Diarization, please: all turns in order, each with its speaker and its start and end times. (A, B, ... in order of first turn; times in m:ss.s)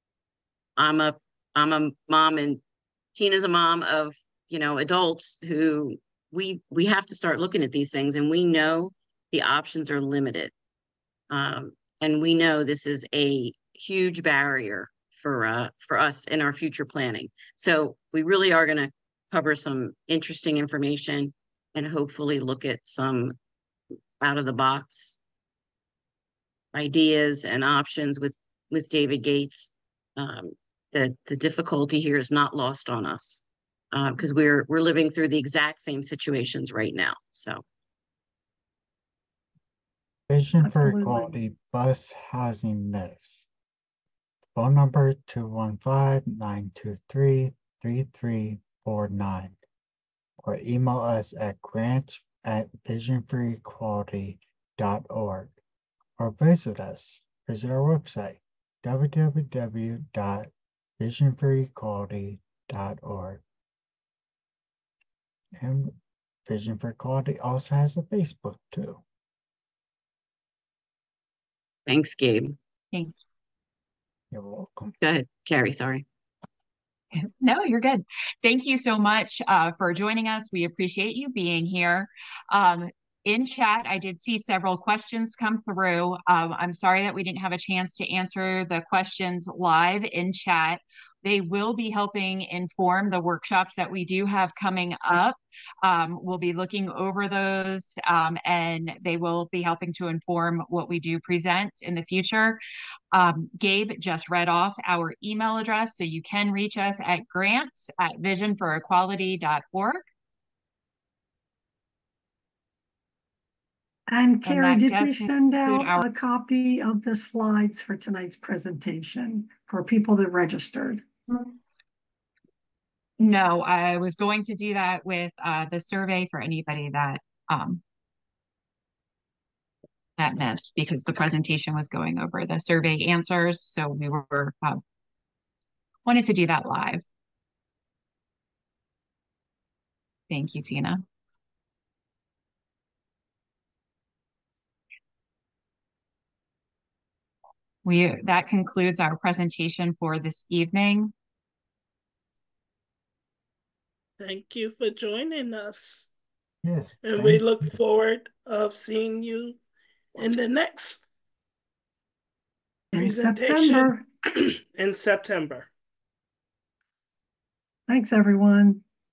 0:00.8-0:02.6 A
0:03.1-0:10.5 A
0:11.3-0:23.4 A
0:24.2-0:25.2 A
0:26.7-0:37.6 A
0:40.3-0:43.5 B
0:40.6-0:41.4 C
0:44.5-0:49.6 B
0:50.4-0:55.6 B
0:56.2-1:03.4 B
1:05.5-1:05.9 B
1:06.4-1:09.0 B
1:11.9-1:12.6 A
1:12.9-1:13.2 D
1:14.3-1:14.9 B
1:15.0-1:16.0 A
1:17.1-1:42.6 D
1:43.1-1:50.0 D
1:54.1-2:01.4 C
1:54.4-1:56.0 D
2:03.2-2:07.8 D
2:10.2-2:14.8 D
2:16.0-2:17.0 D
2:20.3-2:21.0 D
2:27.8-2:31.1 D
2:34.2-2:36.1 E
2:36.6-2:37.7 B
2:37.0-2:39.6 E
2:40.2-2:41.0 E
2:42.9-2:44.0 C
2:43.0-2:45.7 E
2:47.9-2:48.8 C